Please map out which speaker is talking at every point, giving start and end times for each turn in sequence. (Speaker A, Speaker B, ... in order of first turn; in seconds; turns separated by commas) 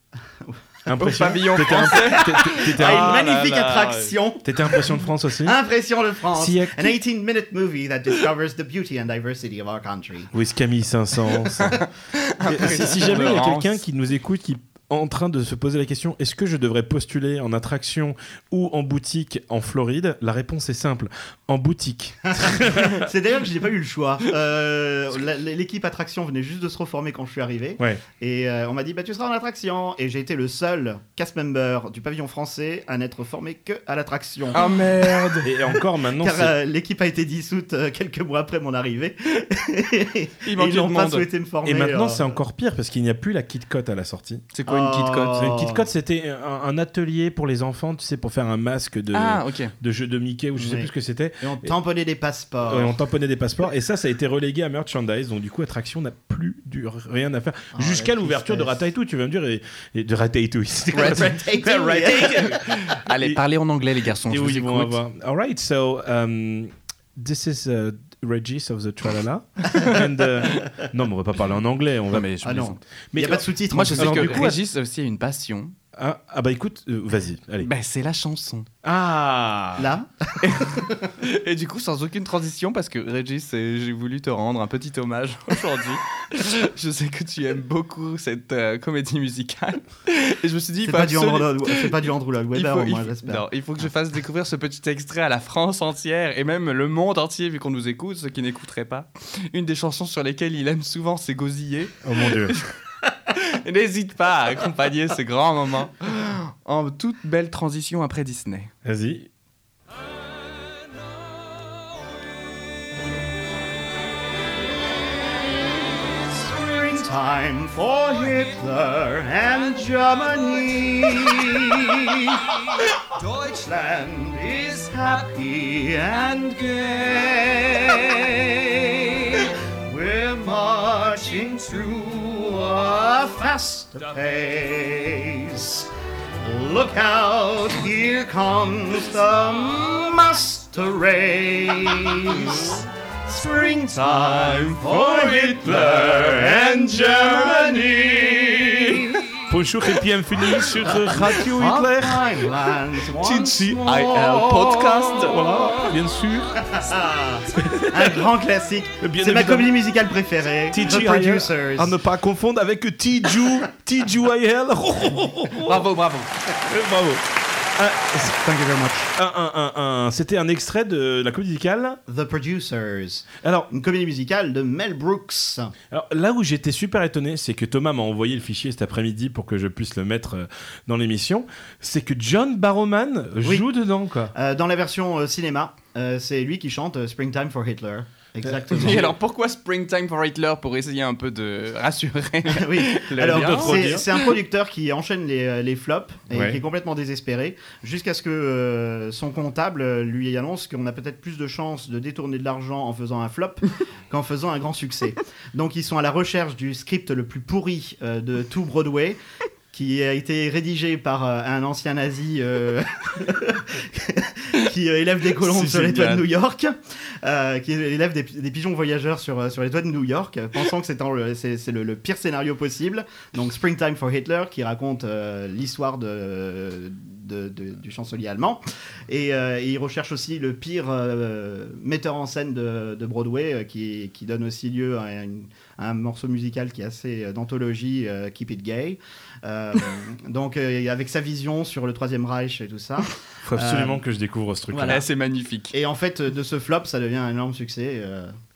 Speaker A: 0.9-3.5, Speaker B: 1.0-4.1, Speaker C: 1.8-4.9, Speaker A: 4.4-5.6, Speaker C: 5.4-10.3, Speaker A: 6.3-6.9, Speaker A: 10.3-11.8, Speaker B: 11.7-13.8, Speaker A: 12.4-23.1, Speaker C: 22.4-42.3, Speaker B: 34.5-35.5, Speaker A: 35.4-36.5, Speaker B: 40.5-41.3, Speaker A: 41.6-44.5, Speaker B: 44.5-45.5, Speaker C: 44.7-45.8, Speaker A: 45.4-51.7, Speaker B: 49.1-49.7, Speaker C: 50.6-52.9, Speaker A: 52.7-63.4, Speaker C: 57.7-58.9, Speaker B: 60.9-65.0, Speaker C: 61.0-62.5, Speaker A: 64.3-72.3, Speaker B: 72.1-72.8, Speaker C: 72.4-74.5, Speaker A: 73.1-74.6, Speaker B: 73.7-75.7, Speaker A: 76.0-77.7, Speaker B: 77.6-78.7, Speaker A: 78.8-79.9, Speaker C: 79.8-81.1, Speaker B: 80.4-102.7, Speaker C: 90.8-93.5, Speaker A: 102.0-102.6, Speaker B: 103.3-108.7, Speaker A: 108.8-109.3, Speaker C: 116.1-135.9, Speaker C: 136.4-149.4, Speaker A: 144.9-147.8, Speaker A: 148.9-152.5, Speaker C: 150.8-155.6, Speaker A: 153.2-153.8, Speaker B: 153.5-155.4, Speaker A: 155.3-156.5, Speaker C: 156.6-161.9, Speaker A: 157.6-158.2, Speaker A: 159.0-159.7, Speaker A: 160.7-165.9, Speaker B: 165.6-166.3, Speaker A: 166.6-167.2, Speaker A: 167.8-168.3, Speaker C: 168.1-169.1, Speaker A: 169.2-172.0, Speaker C: 172.1-175.7, Speaker A: 173.4-173.7, Speaker A: 175.9-184.3, Speaker C: 184.3-189.1, Speaker A: 188.4-189.1, Speaker B: 188.7-194.3, Speaker C: 192.5-209.2, Speaker A: 193.2-194.1, Speaker A: 196.3-196.6, Speaker C: 209.7-244.0, Speaker B: 215.4-216.3, Speaker A: 243.4-245.0, Speaker C: 244.7-245.0, Speaker B: 244.8-245.7, Speaker C: 245.7-248.3